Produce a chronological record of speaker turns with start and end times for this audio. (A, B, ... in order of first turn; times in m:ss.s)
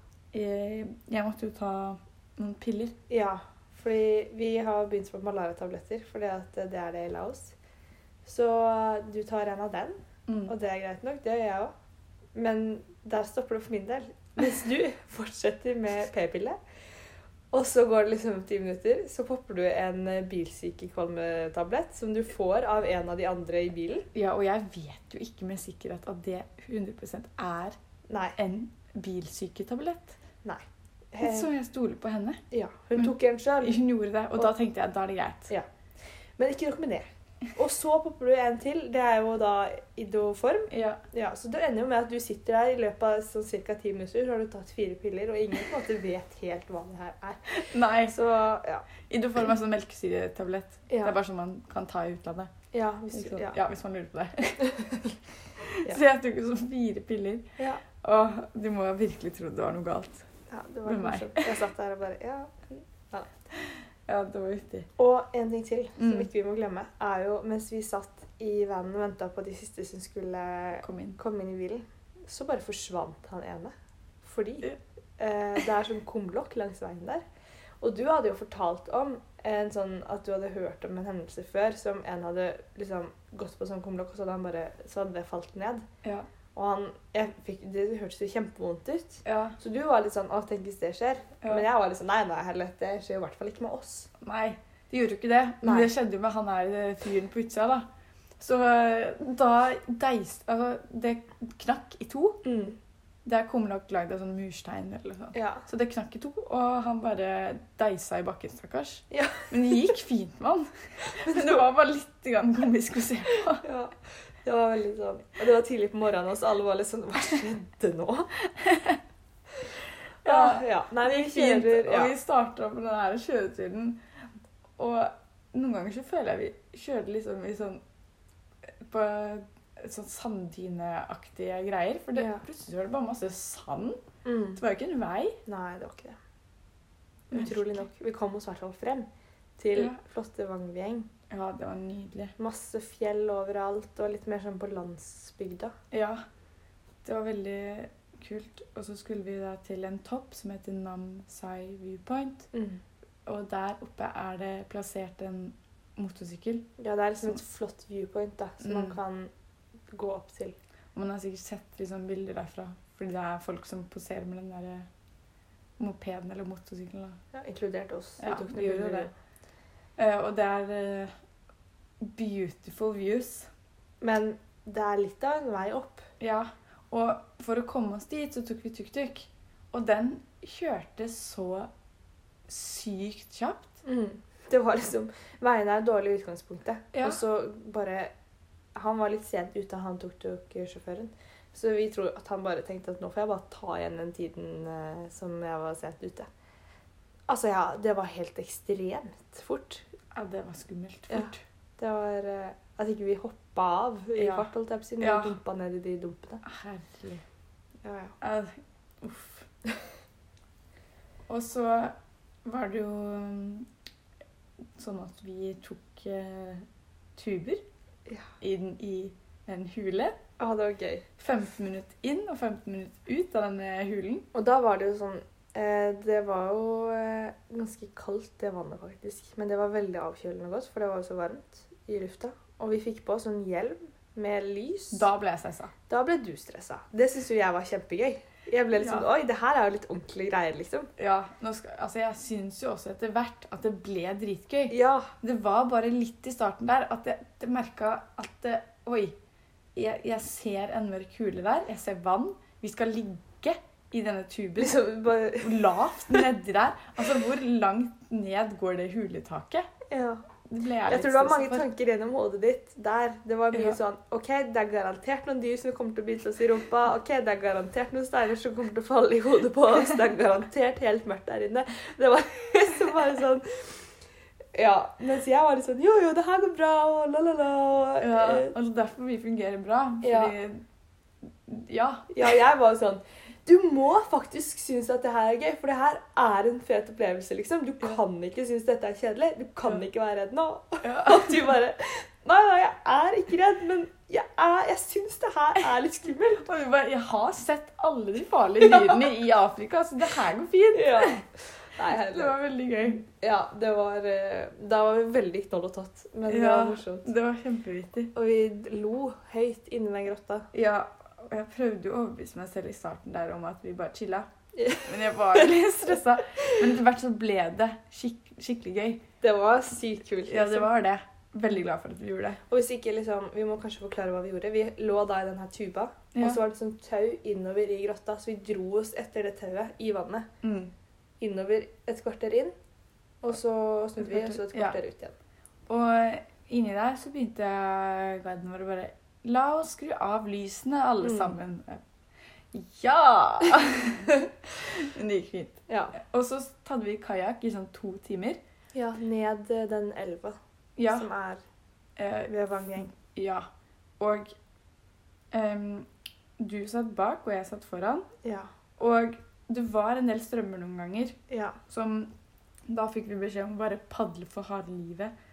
0:00.3-0:03.0 A
0:03.1-0:07.6 B
0:08.2-0:11.7 B
0:10.3-0:10.5 A
0:12.3-0:16.6 B
0:17.5-0:24.1 B
0:24.1-0:27.8 A
0:28.1-0:28.4 B
0:28.4-0:30.2 A
0:30.4-0:31.5 B
0:31.2-0:32.4 A
0:32.5-0:33.8 B
0:33.6-0:35.5 A
0:36.4-0:48.9 B
0:40.7-0:41.0 A
0:47.5-0:48.2 A
0:49.1-0:52.5 A
0:50.9-0:51.2 B
0:52.7-0:53.6 B
0:53.1-0:54.7 A
0:54.7-0:54.9 B
0:55.6-0:57.5 A
0:57.6-0:57.8 B
0:58.0-1:00.2 A
1:00.5-1:03.3 B
1:00.8-1:01.6 A
1:04.1-1:04.9 A
1:05.0-1:17.2 B
1:06.0-1:06.3 A
1:10.8-1:11.2 A
1:17.8-1:25.8 B
1:26.6-1:34.1 B
1:29.2-1:29.6 A
1:34.2-1:37.9 A
1:35.6-1:35.9 B
1:38.4-1:42.4 A
1:42.4-1:42.8 B
1:43.2-1:53.6 A
1:45.3-1:45.6 B
1:49.1-1:49.5 B
1:53.6-1:58.3 B
1:58.6-1:59.0 A
2:00.2-2:02.1 B
2:00.2-2:04.0 A
2:04.8-2:07.8 A
2:08.8-2:14.0 A
2:12.2-2:12.4 B
2:14.2-2:14.6 B
2:14.6-2:15.4 A
2:15.4-2:16.2 B
2:17.3-2:21.1 B
2:17.3-2:17.9 A
2:21.3-2:22.4 A
2:22.4-2:25.7 B
2:25.9-2:26.2 A
2:27.0-2:32.5 A
2:32.5-2:32.8 B
2:33.2-2:36.7 A
2:36.8-2:39.3 B
2:38.6-2:39.0 A
2:39.9-2:40.6 B
2:40.9-2:44.9 A
2:45.8-2:47.2 A
2:47.3-2:49.1 B
2:48.2-2:49.1 A
2:50.0-2:51.1 A
2:52.0-2:53.5 A
2:54.0-2:56.0 B
2:56.2-3:01.7 A
3:02.5-3:03.8 A
3:03.8-3:08.1 B
3:06.9-3:07.2 A
3:08.8-3:16.3 B
3:17.3-3:19.8 B
3:20.1-3:21.4 A
3:21.1-3:26.4 B
3:24.2-3:24.5 A
3:25.0-3:25.4 A
3:26.4-3:27.2 A
3:27.8-3:28.1 B
3:28.2-3:29.5 A
3:31.3-3:31.9 A
3:32.4-3:33.7 A
3:34.8-3:37.6 A
3:38.4-3:40.2 A
3:40.4-3:41.0 B
3:41.2-3:44.3 A
3:44.3-3:55.1 B
3:54.9-3:55.7 A
3:55.9-4:00.9 B
3:58.8-3:59.1 A
4:01.0-4:09.1 A
4:04.7-4:05.1 B
4:09.8-4:14.8 A
4:14.6-4:16.2 B
4:15.4-4:19.7 A
4:19.9-4:20.2 B
4:20.5-4:21.7 A
4:20.9-4:33.8 B
4:34.6-4:38.5 B
4:38.0-4:40.6 A
4:40.0-4:40.3 B
4:41.4-4:42.3 A
4:42.1-4:56.4 B
4:50.8-4:51.4 A
4:56.4-5:01.2 A
5:00.7-5:02.4 B
5:02.1-5:03.0 A
5:03.1-5:07.1 B
5:06.3-5:08.1 A
5:08.1-5:10.4 B
5:10.5-5:14.3 A
5:14.6-5:15.6 B
5:14.9-5:19.0 A
5:19.2-5:20.7 B
5:20.3-5:22.4 A
5:22.5-5:30.3 B
5:26.1-5:26.4 A
5:30.4-5:30.7 A
5:31.2-5:32.5 B
5:33.2-5:35.1 B
5:34.0-5:34.8 A
5:35.7-5:41.8 A
5:41.0-5:41.4 B
5:42.5-5:48.4 A
5:45.7-5:45.9 B
5:48.7-5:50.4 B
5:50.8-5:51.1 A
5:50.9-5:51.4 B
5:52.0-5:53.4 A
5:52.3-5:52.9 B
5:54.0-5:54.3 A
5:55.3-5:55.9 A
5:56.4-5:58.1 A
5:58.2-5:58.5 B
5:58.8-6:01.2 A
6:01.3-6:01.6 B
6:01.7-6:02.1 A
6:02.7-6:05.1 A